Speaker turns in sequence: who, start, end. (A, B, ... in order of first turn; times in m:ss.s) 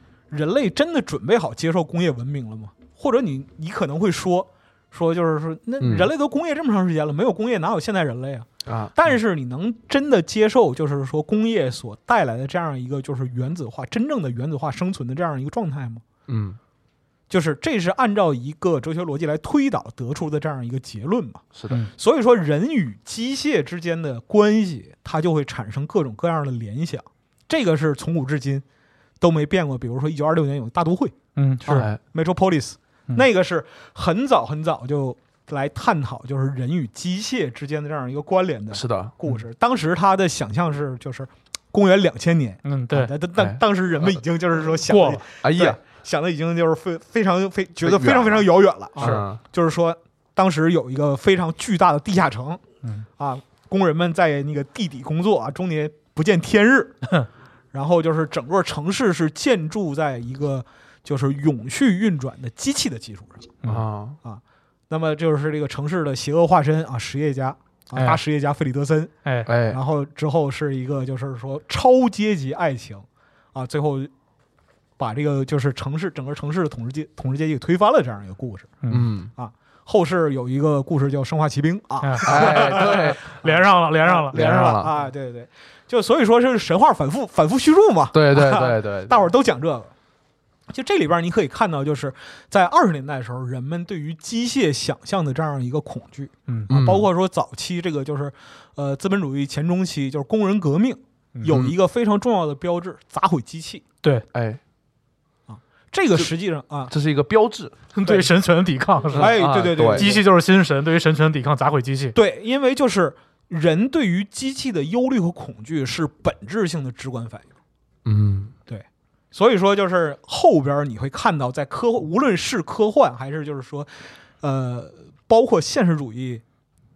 0:00.3-0:16.0 A
0:05.8-0:06.1 B
0:08.6-0:08.9 B
0:16.3-0:16.6 B
0:17.3-0:28.6 A
0:29.2-0:52.6 A
0:31.4-0:31.9 C
0:31.7-0:32.0 B
0:38.7-0:39.2 B
0:42.6-0:43.1 C
0:43.4-0:44.2 B
0:44.9-0:45.2 C
0:45.4-0:45.8 B
0:47.8-0:49.4 B
0:53.2-0:57.0 A
0:57.7-1:03.6 A
1:03.7-1:04.2 B
1:04.2-1:14.1 A
1:09.4-1:09.8 B
1:15.0-1:18.8 A
1:18.8-1:19.1 C
1:18.9-1:19.3 B
1:19.4-1:29.9 A
1:22.0-1:24.7 C
1:22.2-1:23.3 B
1:24.3-1:24.9 B
1:28.1-1:29.2 B
1:30.7-1:43.8 A
1:36.7-1:37.1 B
1:41.4-1:41.7 B
1:44.3-1:44.6 B
1:45.5-1:46.9 A
1:46.9-1:47.8 B
1:47.9-1:52.2 C
1:49.1-1:50.1 B
1:49.1-1:50.2 A
1:52.1-1:57.5 A
1:58.0-1:58.5 B
1:58.7-2:06.4 A